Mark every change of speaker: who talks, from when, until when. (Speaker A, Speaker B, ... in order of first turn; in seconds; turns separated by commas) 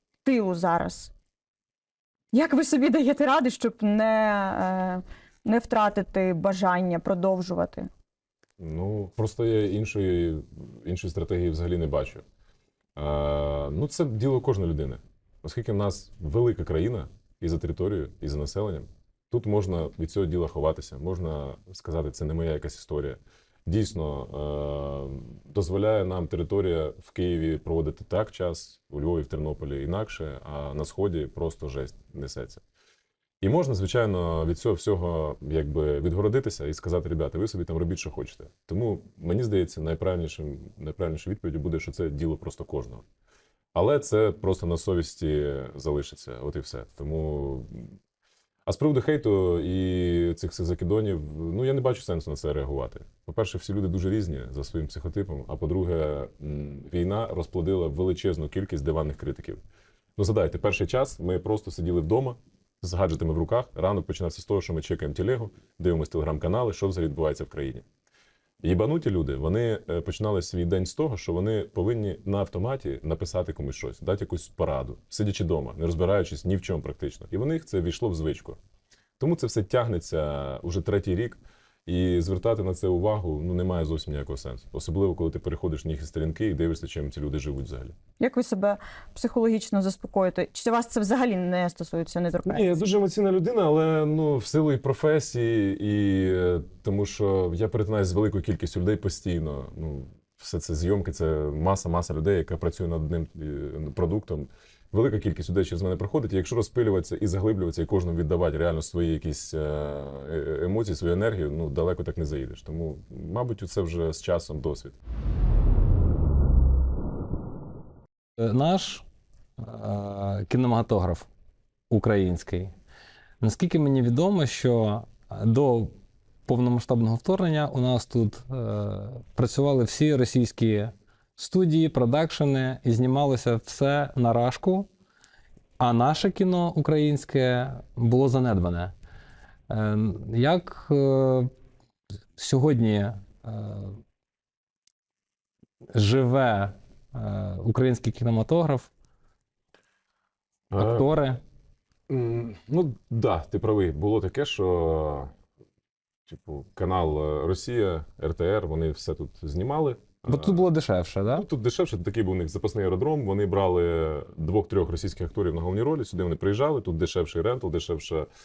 Speaker A: 0.2-1.1, Speaker A: 2.3-7.9, Speaker B: 8.6-12.2, Speaker B: 12.9-32.6, Speaker B: 33.4-43.0, Speaker B: 43.7-47.9, Speaker B: 48.6-59.6, Speaker B: 60.2-67.8, Speaker B: 68.6-78.6, Speaker B: 79.2-87.9, Speaker A: 88.2-92.7, Speaker B: 92.4-115.0, Speaker C: 118.4-119.0, Speaker C: 119.6-121.3, Speaker C: 121.9-122.7, Speaker C: 123.4-125.9, Speaker C: 126.5-134.9, Speaker C: 135.8-138.9, Speaker C: 139.7-141.5, Speaker C: 142.4-144.0, Speaker C: 145.9-148.9, Speaker B: 150.7-151.1, Speaker C: 150.8-151.4, Speaker B: 152.1-155.3, Speaker B: 156.3-160.6, Speaker C: 160.3-161.4, Speaker B: 161.3-168.3